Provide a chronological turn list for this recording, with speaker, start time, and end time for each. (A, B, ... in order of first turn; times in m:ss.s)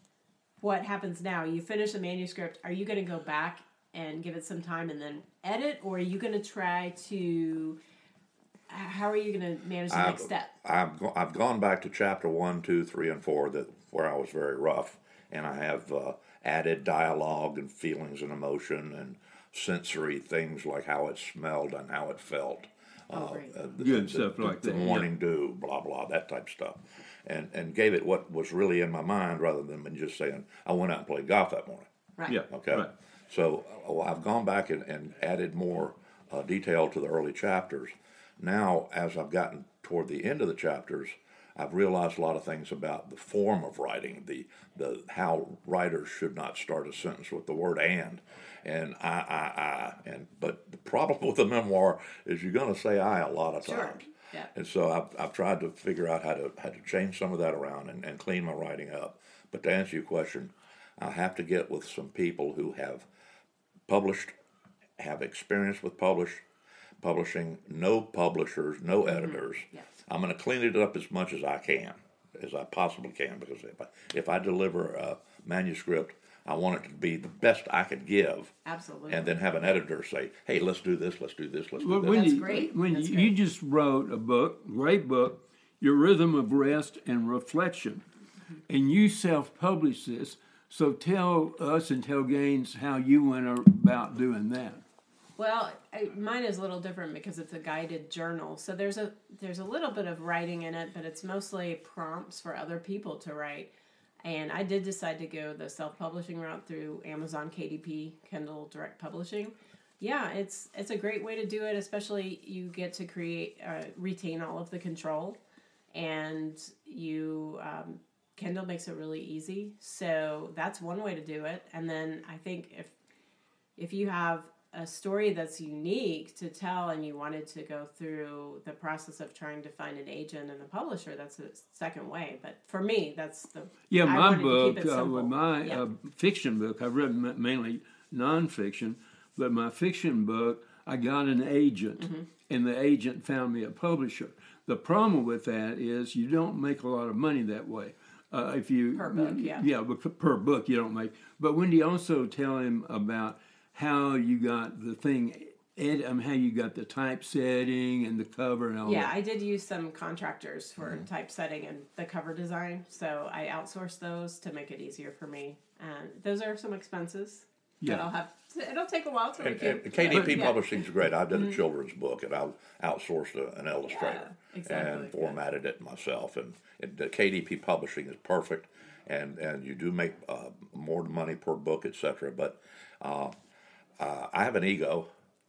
0:00.6-0:07.8 A
0:08.7-0:10.5 A
0:09.9-0:31.9 B
0:23.1-0:23.5 A
0:23.8-0:25.1 C
0:32.3-0:32.9 C
0:32.5-0:54.0 B
0:53.6-0:54.5 A
0:54.5-1:03.0 B
1:03.9-1:04.3 B
1:05.0-1:06.4 B
1:07.0-1:18.5 B
1:09.1-1:09.8 A
1:18.6-1:19.4 A
1:19.1-1:22.4 B
1:21.8-1:28.0 C
1:22.1-1:23.3 A
1:28.7-1:34.8 C
1:35.4-1:43.7 A
1:44.2-1:55.4 A
1:55.9-2:02.9 A
2:03.8-2:15.8 A
2:13.9-2:39.1 C
2:28.9-2:29.6 A
2:38.8-2:50.7 A
2:47.8-2:48.1 C
2:49.4-3:03.3 B
2:50.1-2:50.4 C
2:53.9-2:55.3 A
3:04.0-3:05.1 B